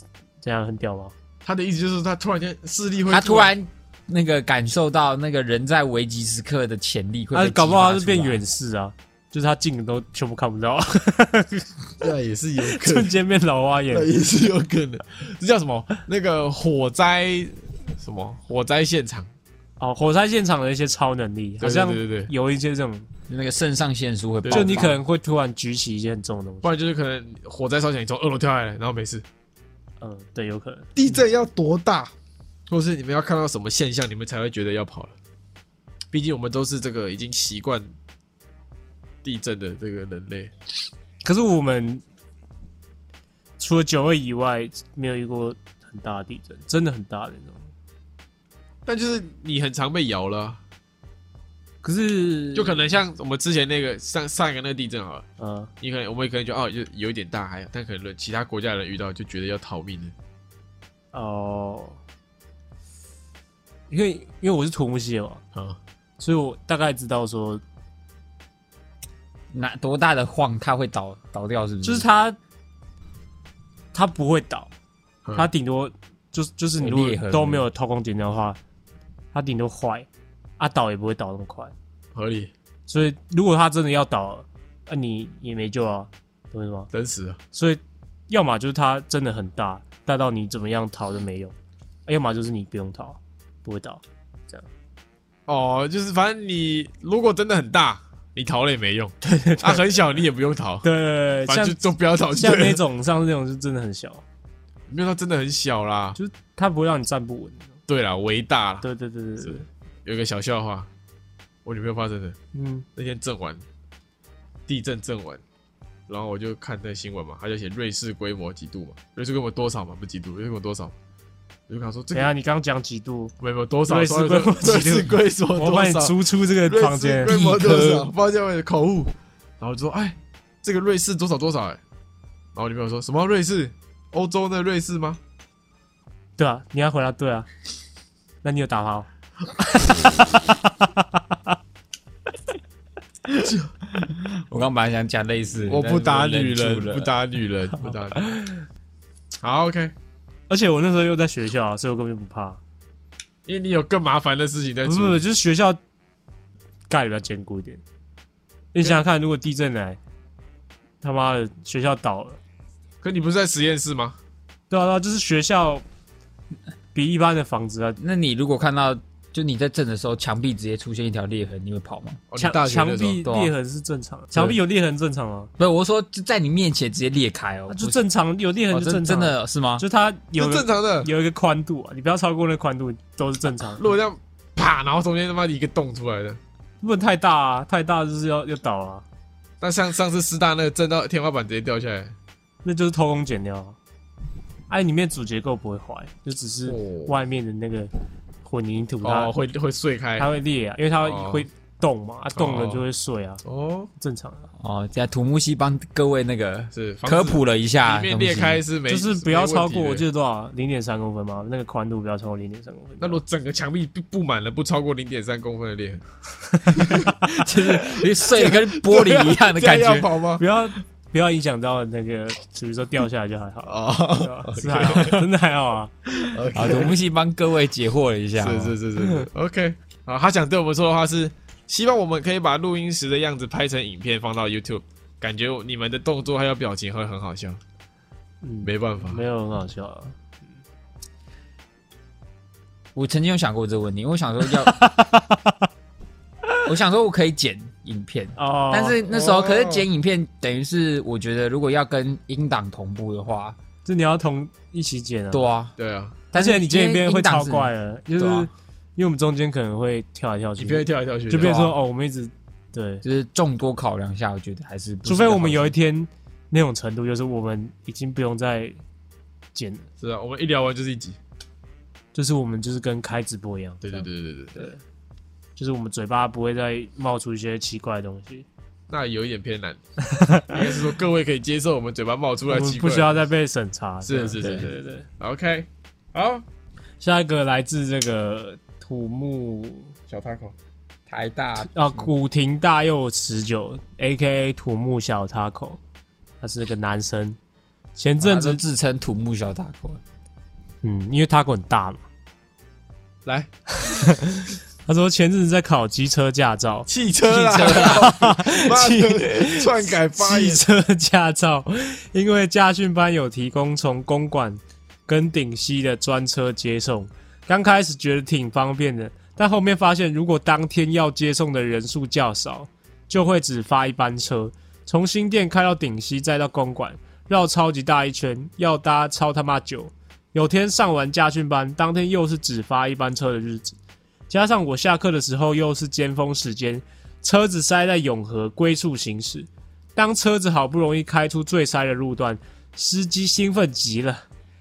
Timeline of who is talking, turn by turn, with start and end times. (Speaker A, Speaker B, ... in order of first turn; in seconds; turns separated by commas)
Speaker A: 0.4-1.1, Speaker B: 1.4-3.5, Speaker C: 3.1-8.4, Speaker A: 7.3-11.7, Speaker B: 12.0-13.1, Speaker A: 12.6-14.1, Speaker B: 13.9-19.3, Speaker A: 19.8-23.1, Speaker B: 21.6-22.3, Speaker C: 23.3-25.0, Speaker B: 24.4-25.0, Speaker A: 24.5-26.7, Speaker B: 26.6-29.2, Speaker A: 30.0-31.2, Speaker B: 30.9-32.1, Speaker B: 32.7-35.1, Speaker B: 36.1-37.9, Speaker B: 39.2-40.5, Speaker A: 41.2-42.0, Speaker A: 43.6-47.6, Speaker B: 48.9-50.6, Speaker A: 51.8-52.9, Speaker B: 52.5-55.2, Speaker A: 55.4-55.7, Speaker B: 55.8-60.1, Speaker A: 61.1-62.0, Speaker A: 63.9-65.4, Speaker A: 66.2-67.6, Speaker C: 69.5-72.1, Speaker A: 71.8-72.4, Speaker A: 73.9-74.7, Speaker A: 75.3-78.6, Speaker C: 76.8-77.6, Speaker A: 79.3-80.1, Speaker A: 80.6-81.7, Speaker B: 82.1-82.5, Speaker A: 82.9-86.9, Speaker B: 86.9-87.4, Speaker A: 87.5-91.5, Speaker A: 92.1-94.7, Speaker B: 95.5-100.8, Speaker A: 99.2-99.9, Speaker A: 100.8-101.8, Speaker B: 101.5-102.8, Speaker A: 102.3-104.2, Speaker B: 104.9-106.2, Speaker A: 106.2-107.7, Speaker B: 107.9-108.8, Speaker A: 108.8-109.7, Speaker B: 109.4-110.9, Speaker B: 111.6-112.3, Speaker A: 112.5-112.8, Speaker B: 113.0-113.6, Speaker B: 114.7-115.4, Speaker B: 116.1-120.9, Speaker B: 121.7-122.3, Speaker A: 122.1-123.3, Speaker B: 123.4-131.8, Speaker A: 123.9-127.4, Speaker C: 127.2-128.1, Speaker B: 132.5-135.2, Speaker A: 136.4-137.5, Speaker A: 138.4-141.5, Speaker C: 143.3-147.1, Speaker B: 145.7-148.2, Speaker A: 147.8-148.7, Speaker B: 149.4-149.9, Speaker A: 150.5-152.6, Speaker B: 153.4-155.2, Speaker A: 154.8-155.8, Speaker A: 156.9-157.8, Speaker A: 158.7-160.0, Speaker A: 161.0-162.4, Speaker B: 163.0-164.2, Speaker A: 164.7-165.8, Speaker A: 166.9-168.0, Speaker C: 168.0-172.2, Speaker B: 172.3-173.2, Speaker A: 172.4-175.5, Speaker C: 173.2-173.5, Speaker C: 175.6-178.0, Speaker A: 177.7-183.9, Speaker C: 178.7-179.8, Speaker B: 180.4-181.1, Speaker B: 183.8-186.4, Speaker A: 186.8-189.0, Speaker B: 189.6-192.1, Speaker A: 192.6-193.8, Speaker A: 194.7-197.9, Speaker B: 196.7-197.2, Speaker A: 198.4-199.3, Speaker B: 199.0-200.3, Speaker A: 200.2-203.4, Speaker B: 201.0-201.5, Speaker B: 202.3-202.8, Speaker B: 203.4-203.9, Speaker A: 204.0-204.5, Speaker C: 204.6-208.6, Speaker B: 206.7-210.0, Speaker A: 208.9-213.2, Speaker B: 213.0-216.0, Speaker A: 216.5-217.5, Speaker C: 216.8-220.1, Speaker B: 216.8-217.1, Speaker B: 218.3-220.4, Speaker A: 220.4-225.9, Speaker B: 223.7-225.3, Speaker B: 226.1-226.9, Speaker C: 226.5-228.8, Speaker B: 228.4-237.6, Speaker A: 229.0-229.2, Speaker A: 238.4-240.2, Speaker B: 238.6-239.2, Speaker C: 242.9-244.8, Speaker A: 244.6-245.7, Speaker C: 246.6-253.6, Speaker A: 248.3-249.0, Speaker B: 249.1-249.9, Speaker A: 253.8-255.5, Speaker C: 255.3-255.7, Speaker B: 255.8-256.2, Speaker C: 256.3-258.5, Speaker A: 256.3-263.0, Speaker B: 260.6-261.6, Speaker C: 261.4-261.8, Speaker C: 263.0-265.7, Speaker A: 265.0-268.8, Speaker A: 269.5-269.9, Speaker B: 270.0-271.2, Speaker A: 272.1-274.8, Speaker B: 273.8-274.7, Speaker A: 275.6-278.4, Speaker B: 278.9-279.8, Speaker A: 280.0-280.7, Speaker B: 280.5-283.2, Speaker A: 282.5-285.1, Speaker B: 284.0-286.4, Speaker A: 287.0-289.9, Speaker B: 290.1-290.5, Speaker C: 291.1-291.7, Speaker A: 291.6-295.8, Speaker A: 296.4-297.4, Speaker A: 297.9-298.6, Speaker C: 298.2-300.0, Speaker A: 300.8-302.0, Speaker A: 303.7-306.9, Speaker B: 306.9-310.6, Speaker C: 307.3-308.1, Speaker A: 307.6-333.8, Speaker A: 334.3-344.2